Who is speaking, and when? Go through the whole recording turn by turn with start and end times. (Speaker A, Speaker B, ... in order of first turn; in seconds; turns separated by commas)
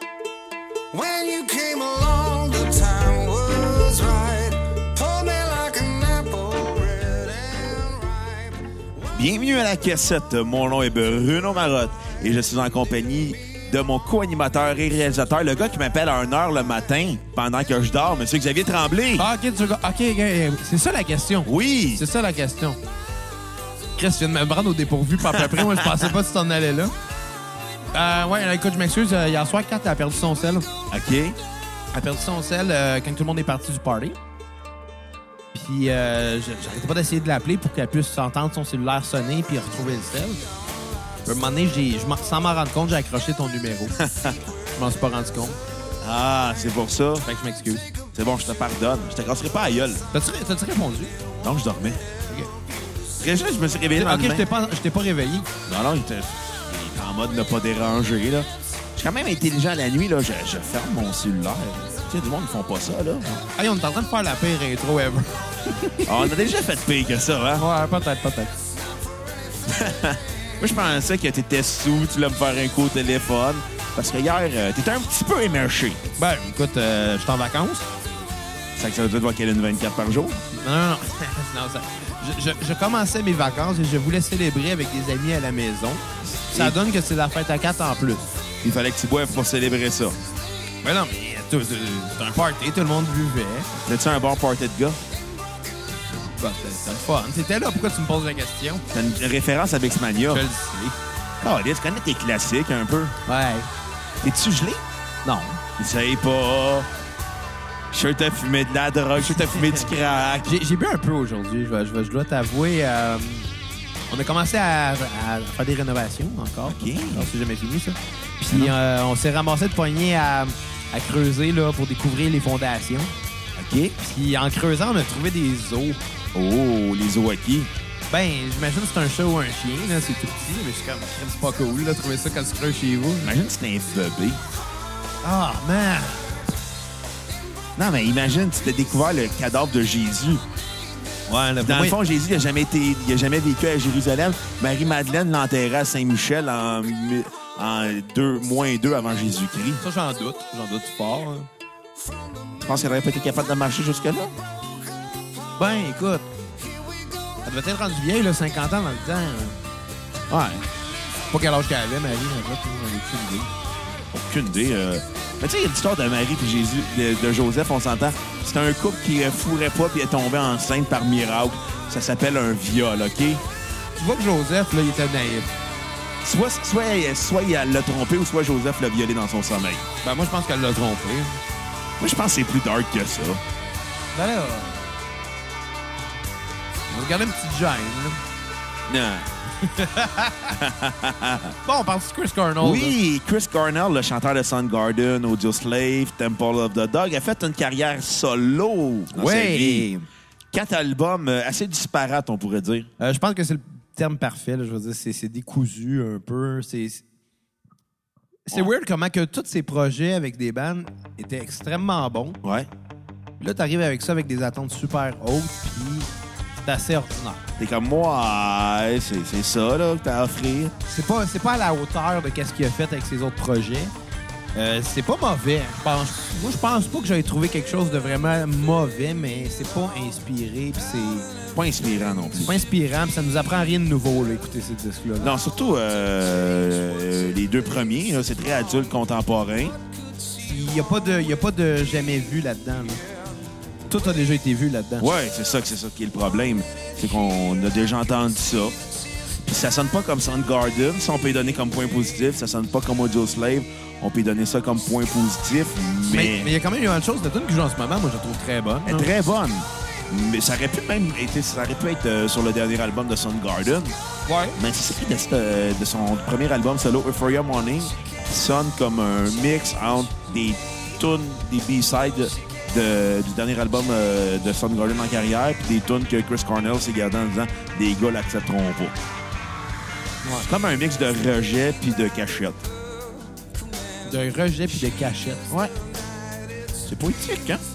Speaker A: 0.9-8.6, Speaker B: 9.1-19.3, Speaker C: 19.2-22.8, Speaker B: 21.4-22.0, Speaker C: 23.9-26.9, Speaker B: 25.2-26.1, Speaker C: 27.9-30.7, Speaker B: 30.9-31.4, Speaker C: 31.9-34.2, Speaker C: 35.5-40.5, Speaker C: 41.2-43.9, Speaker B: 44.0-44.4, Speaker C: 44.8-45.6, Speaker B: 46.0-47.3, Speaker C: 47.2-47.8, Speaker B: 48.1-50.0, Speaker C: 50.1-51.1, Speaker B: 51.4-52.0, Speaker B: 53.2-54.5, Speaker C: 54.0-55.5, Speaker B: 55.6-63.2, Speaker C: 63.2-66.3, Speaker B: 66.0-67.6, Speaker C: 67.5-68.5, Speaker B: 69.7-76.0, Speaker C: 76.2-77.9, Speaker B: 78.8-80.4, Speaker C: 80.5-88.3, Speaker B: 86.3-86.8, Speaker B: 88.6-90.2, Speaker C: 90.8-93.8, Speaker B: 93.8-95.0, Speaker C: 96.2-98.8, Speaker B: 98.9-100.4, Speaker C: 100.3-101.0, Speaker B: 101.4-103.2, Speaker C: 103.3-103.7, Speaker B: 104.2-104.8, Speaker C: 105.2-105.6, Speaker B: 105.8-106.9, Speaker B: 107.9-110.5, Speaker C: 110.4-113.5, Speaker C: 114.1-123.1, Speaker B: 116.7-117.3, Speaker B: 123.5-123.9, Speaker C: 124.0-126.0, Speaker B: 126.3-127.7, Speaker C: 128.1-133.3, Speaker B: 133.2-134.4, Speaker C: 135.2-136.3, Speaker B: 137.8-140.4, Speaker C: 141.3-142.0, Speaker B: 141.6-149.8, Speaker C: 149.8-151.5, Speaker B: 152.6-154.3, Speaker C: 155.6-156.3, Speaker C: 157.4-159.6, Speaker B: 160.3-160.6, Speaker C: 161.3-163.5, Speaker B: 164.1-173.4, Speaker C: 173.9-175.5, Speaker B: 176.2-179.8, Speaker C: 180.0-181.4, Speaker B: 182.0-183.4, Speaker C: 184.1-184.9, Speaker C: 186.9-188.2, Speaker B: 188.9-189.3, Speaker C: 189.6-190.5, Speaker B: 190.5-191.5, Speaker C: 191.6-192.9, Speaker B: 192.6-199.9, Speaker C: 199.1-200.1, Speaker B: 200.5-202.9, Speaker C: 203.0-207.0, Speaker C: 208.4-212.4, Speaker B: 212.4-212.7, Speaker C: 213.4-217.4, Speaker B: 217.6-220.7, Speaker C: 220.9-223.9, Speaker C: 224.5-231.3, Speaker B: 231.5-232.5, Speaker C: 232.3-235.3, Speaker B: 235.2-239.8, Speaker C: 240.4-243.0, Speaker C: 243.9-245.1, Speaker B: 245.0-248.8, Speaker B: 249.4-256.5, Speaker C: 256.1-259.1, Speaker B: 258.8-263.9, Speaker C: 264.3-264.6, Speaker B: 264.6-278.9, Speaker B: 280.4-282.6, Speaker C: 284.0-285.5, Speaker B: 286.9-287.6